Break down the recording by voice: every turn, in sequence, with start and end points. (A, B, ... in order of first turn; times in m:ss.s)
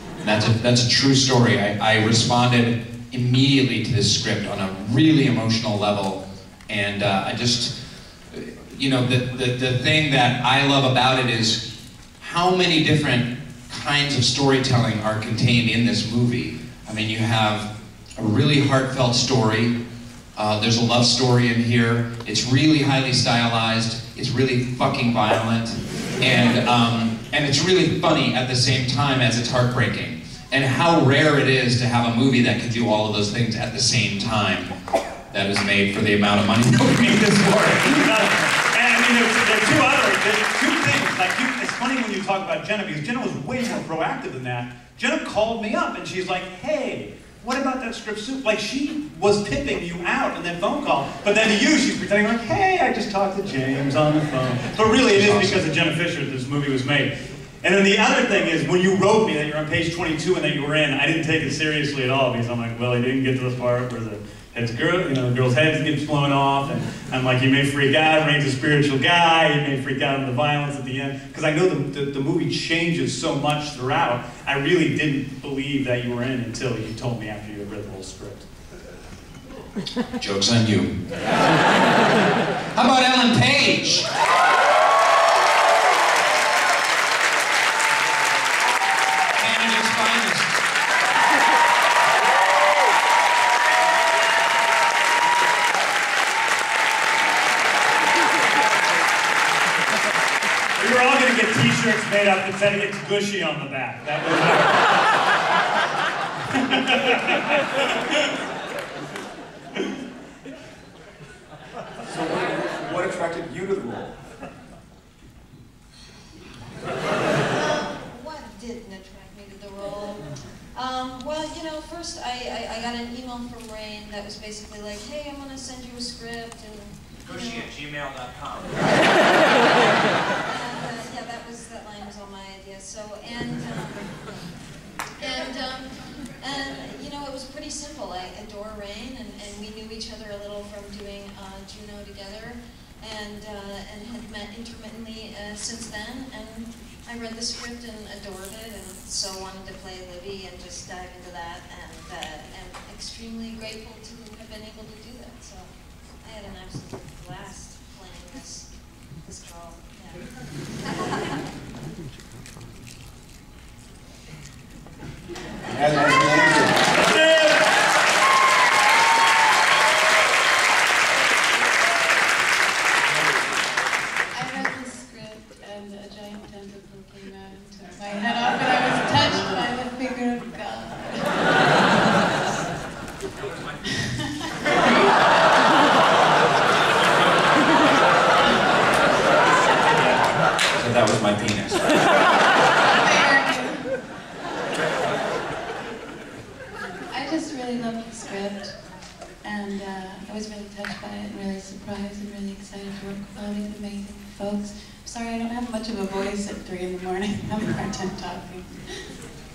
0:00.2-0:07.7 A
0:08.3-0:11.6 A
0:12.2-0:19.7 A
0:20.4-0:34.7 A
0:35.3-0:38.0 A
0:37.9-1:18.5 B
0:55.0-0:55.6 A
1:20.2-1:20.9 A
1:22.7-1:24.1 A
1:29.4-1:30.5 A
1:40.8-1:44.9 B
1:46.5-1:47.4 B
1:52.1-1:54.1 C
1:57.5-2:07.7 D
2:07.2-2:09.0 A
2:10.4-2:14.2 D
2:15.2-2:35.7 D
2:36.2-2:38.7 D
2:39.2-2:40.2 D
2:40.8-2:41.4 D
2:45.7-2:46.8 C
2:47.0-2:47.6 B
2:54.3-3:02.2 E
3:03.8-3:05.0 E
3:10.7-3:11.9 A
3:12.9-3:13.8 E
3:17.1-3:18.8 E
3:19.4-3:29.0 E